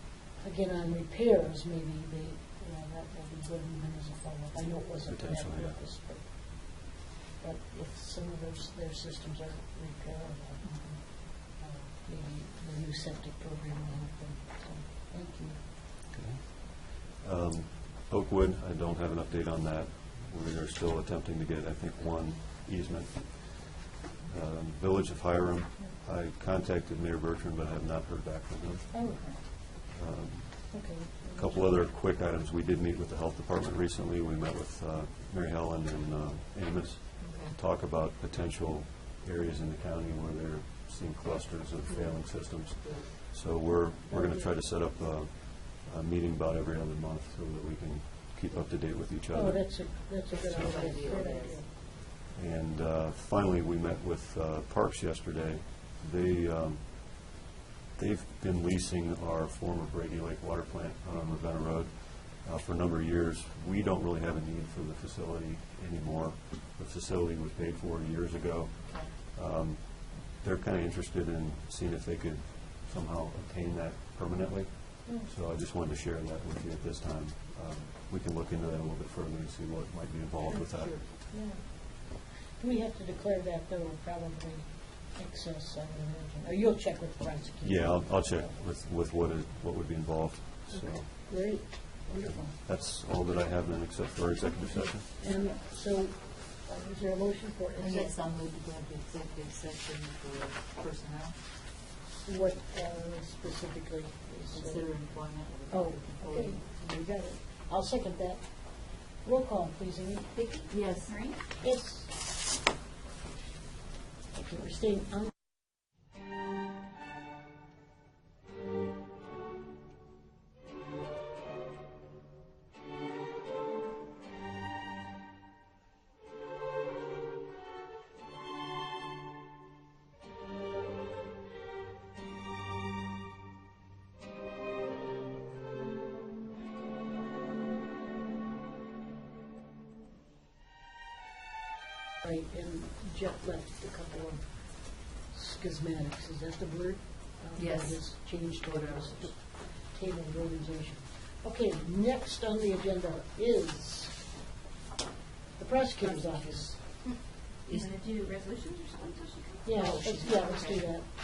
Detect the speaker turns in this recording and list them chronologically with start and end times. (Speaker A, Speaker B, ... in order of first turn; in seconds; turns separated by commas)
Speaker A: 0.4-15.6, Speaker B: 5.1-5.8, Speaker C: 10.6-11.0, Speaker B: 16.1-51.2, Speaker A: 28.9-29.4, Speaker A: 30.7-31.6, Speaker C: 37.2-37.6, Speaker C: 42.6-43.1, Speaker A: 44.1-44.5, Speaker A: 49.3-51.7, Speaker C: 50.3-51.6, Speaker B: 52.2-57.4, Speaker B: 58.0-81.0, Speaker A: 75.0-75.3, Speaker C: 80.5-81.1, Speaker A: 81.3-88.5, Speaker B: 87.6-91.7, Speaker A: 90.7-92.5, Speaker B: 92.2-95.1, Speaker A: 95.2-98.1, Speaker C: 97.8-101.4, Speaker A: 102.2-105.1, Speaker C: 104.5-106.6, Speaker A: 105.7-110.3, Speaker D: 110.3-111.4, Speaker C: 110.7-111.2, Speaker A: 111.6-112.2, Speaker A: 114.3-115.3, Speaker A: 142.2-154.3, Speaker C: 147.6-149.4, Speaker A: 155.6-156.8, Speaker C: 156.0-156.8, Speaker D: 157.7-159.7, Speaker A: 159.6-161.1, Speaker C: 159.7-160.9